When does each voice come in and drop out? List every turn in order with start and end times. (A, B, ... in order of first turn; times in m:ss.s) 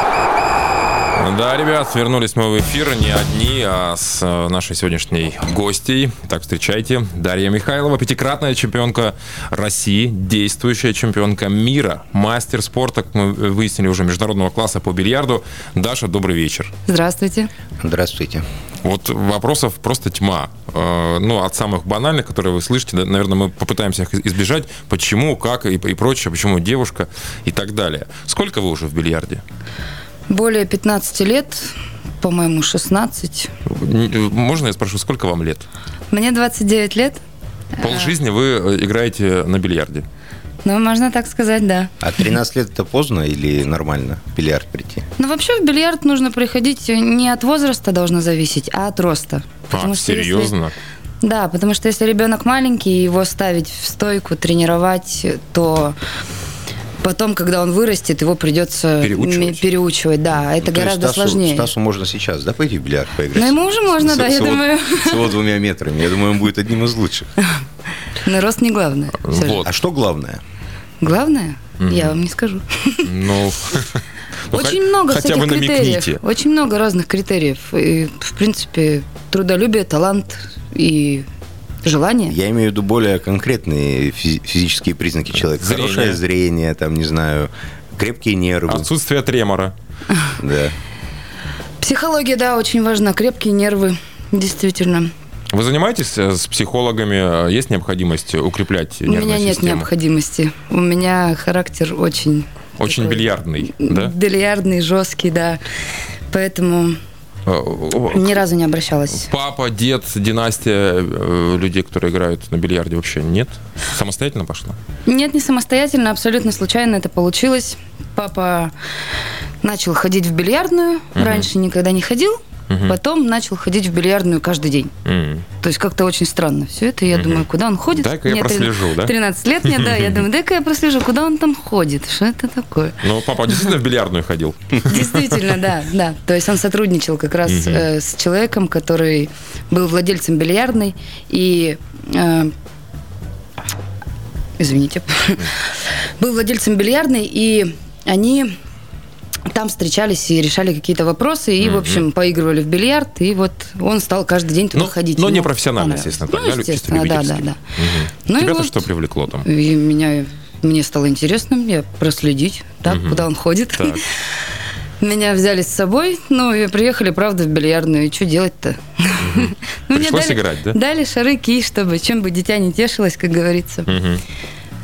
0:01.1-0:16.7 A
0:16.9-0:17.5 B
0:17.8-0:18.4 C
0:18.8-0:29.4 A
0:30.3-0:33.5 B
0:33.6-0:35.6 A
0:36.1-0:37.2 B
0:37.8-0:38.1 B
0:37.8-0:40.0 A
0:40.6-0:41.9 B
0:42.0-0:45.1 C
0:45.2-0:50.5 B
0:49.7-0:50.7 A
0:51.2-0:56.0 B
0:57.0-1:01.7 B
0:59.0-0:59.6 A
1:00.6-1:07.3 C
1:03.3-1:05.3 B
1:08.2-1:09.6 B
1:09.2-1:09.7 A
1:09.6-1:10.4 C
1:11.0-1:13.1 B
1:11.8-1:12.1 A
1:13.0-1:16.2 A
1:14.5-1:21.3 B
1:21.8-1:22.4 B
1:22.3-1:28.9 C
1:25.6-1:26.2 A
1:28.7-1:29.7 A
1:30.4-1:30.8 C
1:31.8-1:35.1 B
1:35.5-1:39.9 A
1:39.0-1:45.6 B
1:42.8-1:44.1 A
1:46.3-1:47.0 B
1:47.4-1:48.4 A
1:48.1-1:49.3 B
1:49.2-1:54.8 A
1:55.0-1:58.7 B
1:59.6-2:04.9 B
2:01.2-2:01.5 A
2:02.7-2:03.0 A
2:05.0-2:05.4 A
2:05.6-2:13.7 B
2:07.1-2:09.1 A
2:09.6-2:10.2 A
2:13.0-2:15.6 A
2:14.8-2:22.5 B
2:17.5-2:17.8 A
2:24.6-2:28.6 B
2:29.5-2:37.6 B
2:31.6-2:32.0 A
2:34.7-2:39.5 A
2:38.2-2:38.8 B
2:39.4-2:44.4 B
2:42.8-2:44.0 A
2:45.0-2:53.9 B
2:49.2-2:50.8 A
2:53.9-2:54.2 A